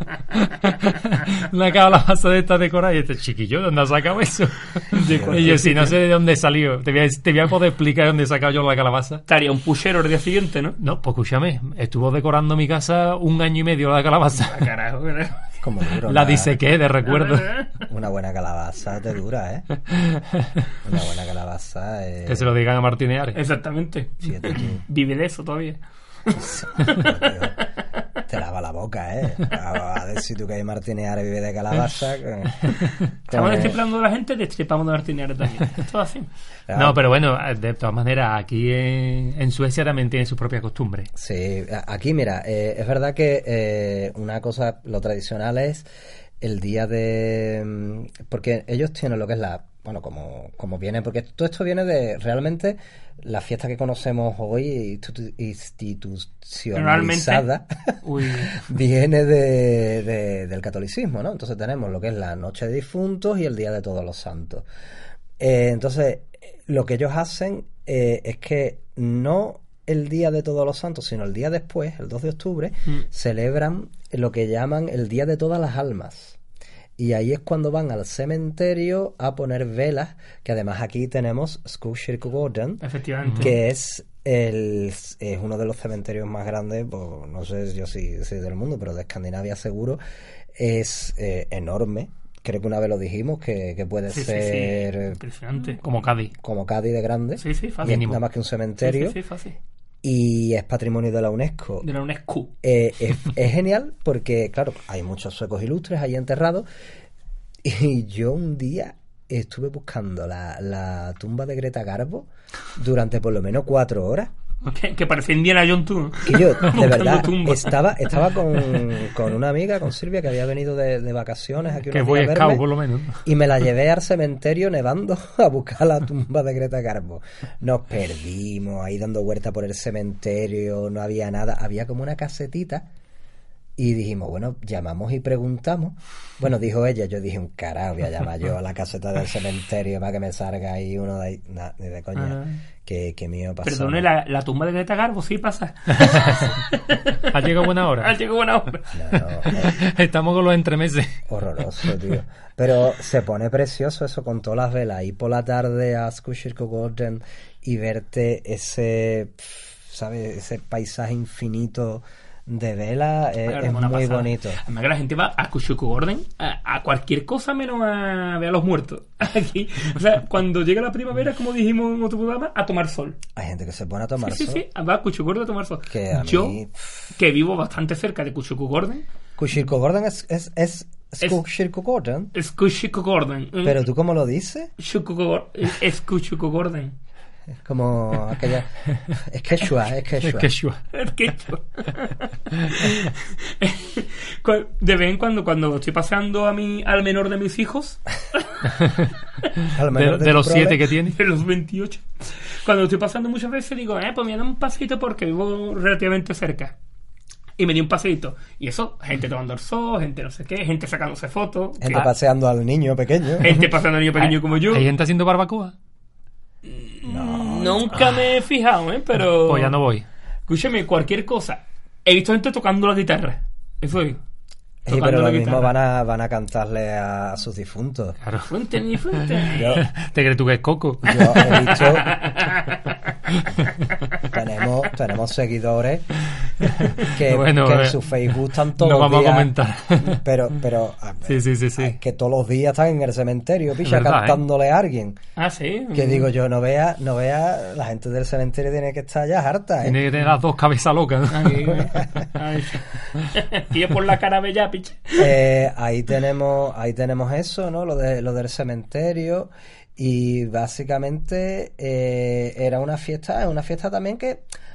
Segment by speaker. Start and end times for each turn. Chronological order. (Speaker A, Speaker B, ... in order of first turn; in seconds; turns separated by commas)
Speaker A: 0.3-9.2, Speaker B: 4.9-6.0, Speaker C: 5.1-5.7, Speaker B: 9.3-10.8, Speaker A: 10.8-14.6, Speaker B: 14.4-15.4, Speaker C: 15.6-16.6, Speaker A: 16.1-17.7, Speaker B: 17.3-17.6, Speaker C: 17.9-19.6, Speaker A: 20.0-20.4, Speaker C: 20.8-22.5, Speaker A: 22.2-23.4, Speaker B: 23.3-27.1, Speaker C: 24.2-24.8, Speaker C: 26.4-27.6, Speaker C: 28.3-33.8, Speaker B: 33.3-36.3, Speaker C: 36.7-37.0, Speaker A: 36.7-41.1, Speaker C: 41.1-45.9, Speaker C: 46.4-64.7, Speaker B: 56.7-57.5, Speaker B: 58.0-58.6, Speaker C: 65.4-76.4, Speaker C: 77.0-82.8, Speaker B: 82.8-83.5, Speaker C: 83.4-90.0, Speaker C: 90.5-95.2, Speaker B: 94.1-95.8, Speaker A: 95.8-96.3, Speaker C: 96.3-99.2, Speaker B: 97.4-98.1, Speaker A: 97.8-98.2, Speaker B: 98.8-99.5, Speaker C: 100.0-101.8, Speaker B: 101.8-102.5, Speaker C: 102.6-106.7, Speaker C: 107.6-114.3, Speaker B: 114.6-117.8, Speaker C: 116.2-122.6, Speaker A: 121.9-123.2, Speaker C: 123.2-132.9, Speaker C: 133.8-144.1, Speaker B: 142.2-142.6, Speaker B: 143.6-147.3, Speaker A: 146.0-146.5, Speaker A: 147.3-148.1, Speaker B: 147.9-148.9, Speaker C: 148.9-149.8, Speaker A: 149.5-151.2, Speaker C: 151.3-164.6, Speaker B: 163.4-173.2, Speaker C: 173.3-174.6, Speaker B: 174.2-176.6, Speaker C: 175.8-177.0, Speaker B: 177.1-179.0, Speaker C: 179.4-182.3, Speaker B: 182.3-183.8, Speaker C: 183.6-184.7, Speaker B: 184.8-186.9, Speaker C: 187.6-190.5, Speaker A: 190.2-190.8, Speaker B: 190.9-198.4, Speaker A: 192.6-193.0, Speaker A: 198.8-199.1, Speaker C: 199.7-200.8, Speaker A: 199.9-201.2, Speaker B: 201.1-206.7, Speaker B: 207.6-212.1, Speaker C: 211.8-213.7, Speaker B: 213.4-214.9, Speaker A: 214.2-215.7, Speaker B: 216.6-219.7, Speaker C: 217.1-218.0, Speaker A: 219.3-220.1, Speaker B: 220.5-224.2, Speaker C: 224.8-228.2, Speaker B: 224.9-225.7, Speaker A: 228.2-228.5, Speaker B: 228.5-229.8, Speaker A: 229.2-231.9, Speaker C: 229.6-229.9, Speaker C: 231.0-232.2, Speaker B: 231.8-232.9, Speaker A: 233.3-233.7, Speaker C: 234.2-236.1, Speaker A: 236.6-238.0, Speaker C: 237.0-245.2, Speaker A: 238.8-240.2, Speaker A: 241.3-242.0, Speaker A: 243.8-244.4, Speaker B: 245.4-246.3, Speaker C: 245.9-250.0, Speaker A: 249.8-251.8, Speaker B: 251.3-255.3, Speaker C: 255.2-264.4